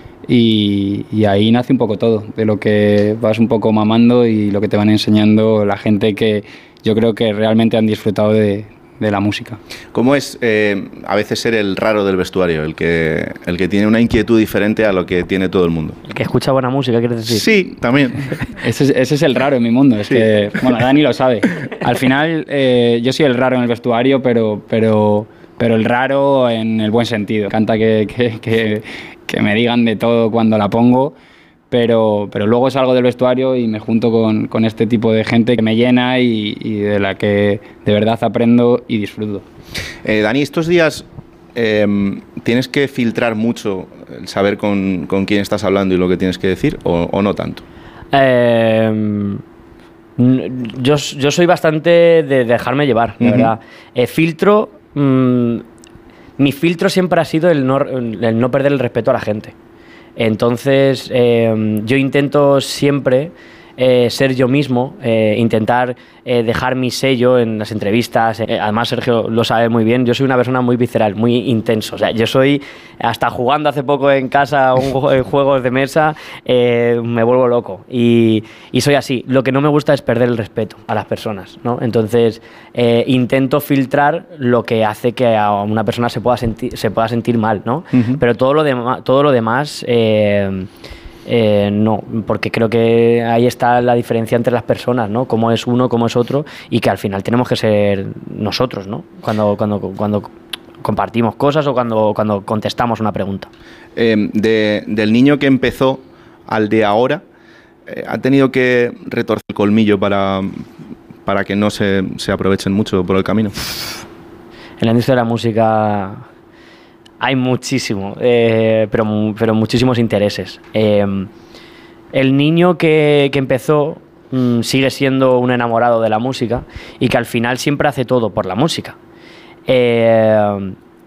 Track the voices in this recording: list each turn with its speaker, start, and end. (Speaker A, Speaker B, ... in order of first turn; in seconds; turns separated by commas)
Speaker A: 0.3-9.6, Speaker B: 9.9-16.0, Speaker C: 16.1-17.5, Speaker B: 17.3-18.3, Speaker A: 18.6-31.1, Speaker A: 31.7-39.5, Speaker B: 40.0-47.6, Speaker C: 48.1-49.4, Speaker C: 50.2-55.6, Speaker B: 53.2-53.5, Speaker C: 56.4-59.5, Speaker C: 60.2-90.7, Speaker B: 87.9-88.2, Speaker C: 91.3-103.5, Speaker B: 104.0-107.2, Speaker B: 107.9-110.7, Speaker B: 111.3-114.0, Speaker C: 114.8-116.2, Speaker C: 117.2-121.3, Speaker C: 122.1-129.0, Speaker C: 129.7-130.8